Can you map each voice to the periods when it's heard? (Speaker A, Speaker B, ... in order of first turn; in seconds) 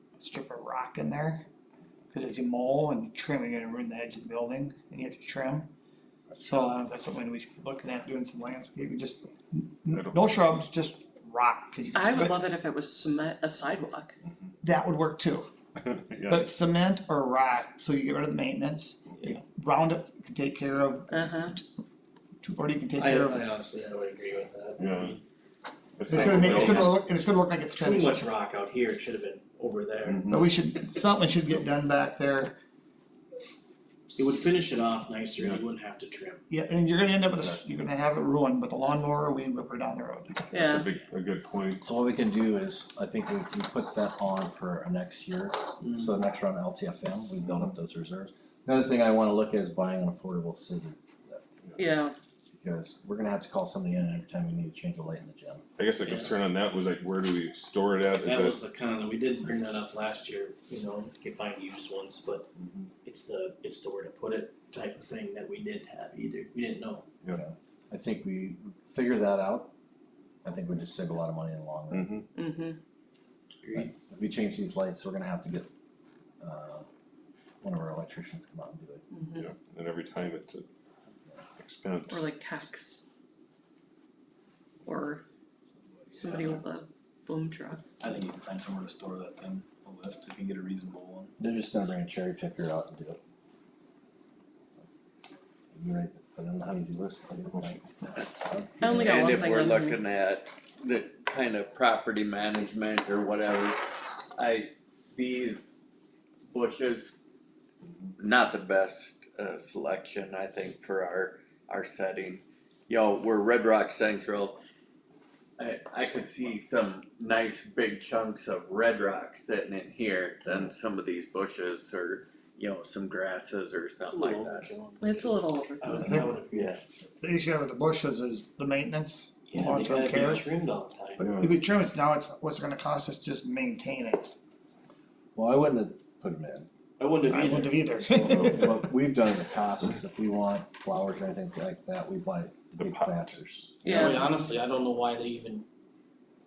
Speaker A: 0.2-1.4, 2.1-5.7, 6.4-12.4, 14.6-15.5, 16.3-21.6, 22.4-23.5, 26.1-28.3, 30.3-32.5, 36.5-40.5, 126.0-126.3, 127.2-130.5, 131.3-134.3, 137.3-138.8
Speaker B: 9.9-10.3, 15.8-16.4, 24.8-25.2, 26.0-27.0, 30.1-30.5, 40.5-41.9, 51.7-51.9, 55.8-58.6, 62.6-62.9, 71.9-72.2, 79.3-80.7, 81.6-82.3, 131.2-131.6, 142.8-144.3
Speaker C: 11.9-14.2, 21.1-21.6, 40.5-40.9, 51.8-52.1, 72.3-72.8, 79.1-79.5, 82.1-83.0, 84.8-85.2, 86.1-87.8, 98.8-100.0, 125.0-126.2, 143.8-144.3
Speaker D: 23.0-25.2, 26.2-26.9, 27.8-30.3, 34.1-36.4, 56.0-56.3, 58.2-62.5, 63.0-67.0, 73.6-73.9, 124.0-126.8, 129.5-131.3, 137.0-138.1, 143.9-145.7
Speaker E: 41.8-51.4, 52.5-55.6, 67.3-69.7, 70.4-72.2, 73.7-75.7, 76.4-76.9, 77.6-79.0, 91.4-93.2, 95.7-99.2, 135.3-136.7, 138.1-144.1
Speaker F: 85.8-86.6, 88.0-91.3
Speaker G: 99.0-103.8, 104.4-105.8, 106.5-107.2, 108.2-114.6, 115.6-124.7, 126.5-126.8